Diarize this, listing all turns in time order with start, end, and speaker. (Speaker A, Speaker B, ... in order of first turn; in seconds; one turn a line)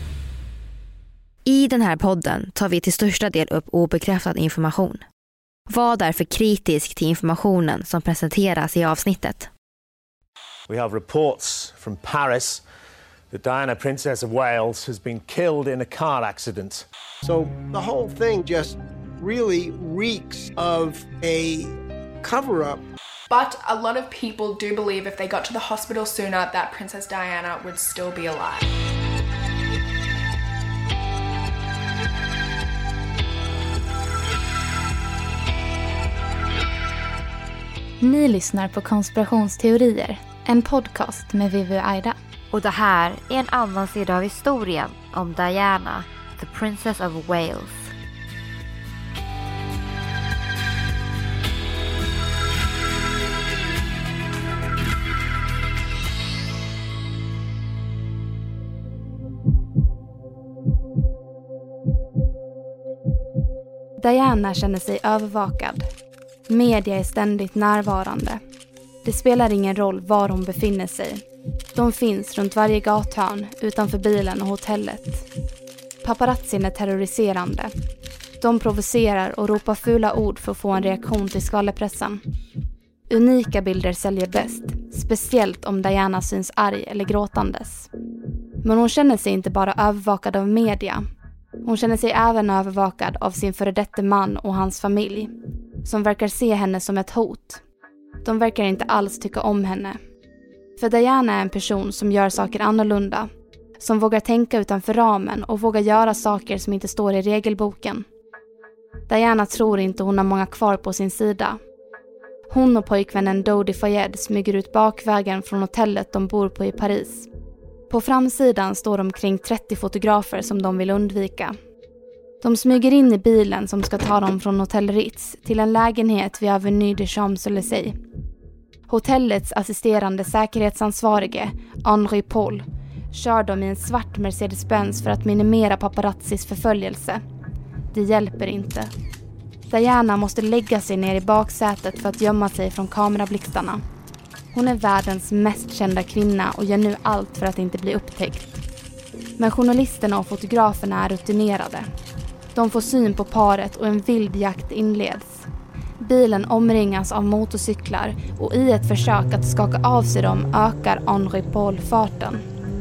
Speaker A: 1.4-5.0
Speaker A: 5.7-9.5
Speaker B: 10.7-12.6
Speaker B: 13.3-16.9
Speaker C: 17.2-22.9
Speaker D: 23.3-28.7
Speaker E: 38.0-42.2
Speaker A: 42.5-47.9
Speaker E: 64.0-65.9
Speaker E: 66.5-68.4
Speaker E: 69.0-71.2
Speaker E: 71.8-75.3
Speaker E: 76.0-77.7
Speaker E: 78.4-82.2
Speaker E: 83.1-87.9
Speaker E: 88.6-91.1
Speaker E: 91.7-95.3
Speaker E: 95.8-97.6
Speaker E: 98.2-100.0
Speaker E: 100.8-108.1
Speaker E: 109.1-111.6
Speaker E: 112.5-117.3
Speaker E: 117.9-121.6
Speaker E: 122.4-128.0
Speaker E: 128.9-137.2
Speaker E: 137.9-138.9
Speaker E: 139.7-143.8
Speaker E: 144.5-148.6
Speaker E: 149.4-151.9
Speaker E: 152.6-155.5
Speaker E: 156.0-162.4